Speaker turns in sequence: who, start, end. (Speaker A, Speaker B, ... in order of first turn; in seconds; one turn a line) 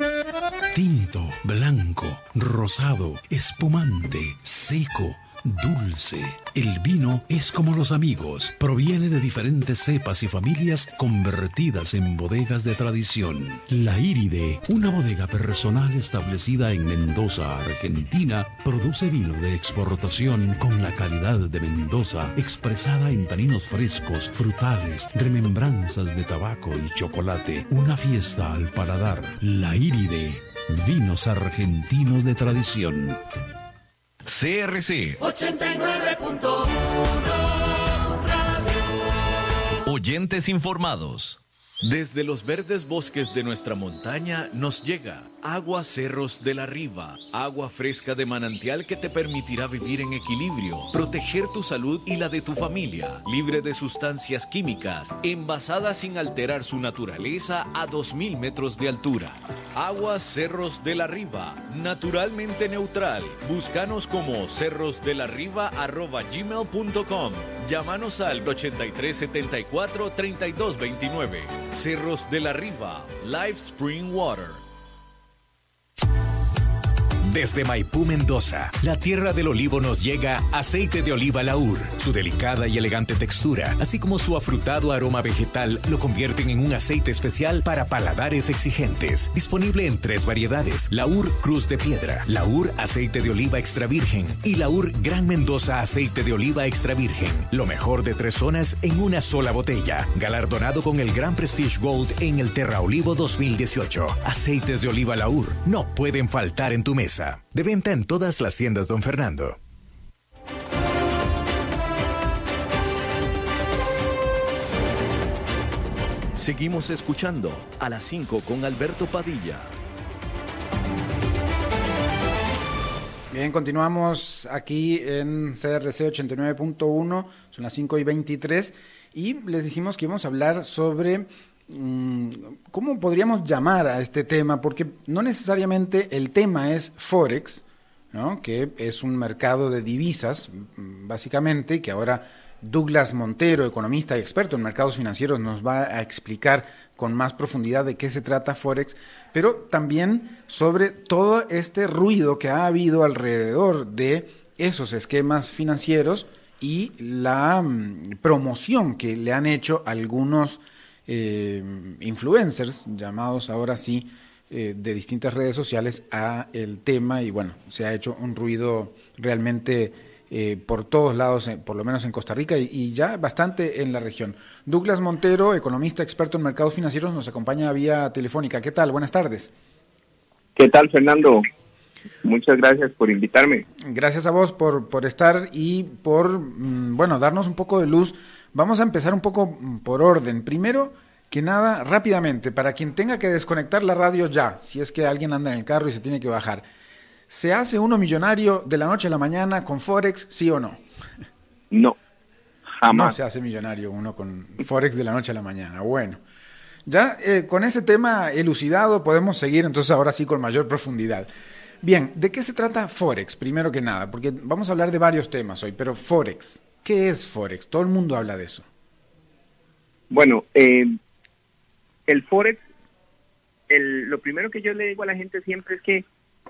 Speaker A: 0.7-33.2
Speaker B: 34.2-36.1
Speaker B: 39.8-74.6
Speaker C: 77.3-109.6
Speaker B: 116.3-119.7
Speaker D: 123.3-179.5
Speaker E: 180.6-181.4
Speaker E: 182.2-183.7
Speaker D: 183.8-196.6
Speaker D: 197.3-200.8
Speaker E: 201.7-202.0
Speaker E: 202.8-203.1
Speaker D: 202.9-206.2
Speaker D: 206.8-211.3
Speaker D: 211.8-218.7
Speaker E: 220.1-220.9
Speaker E: 222.1-222.6
Speaker E: 223.7-226.0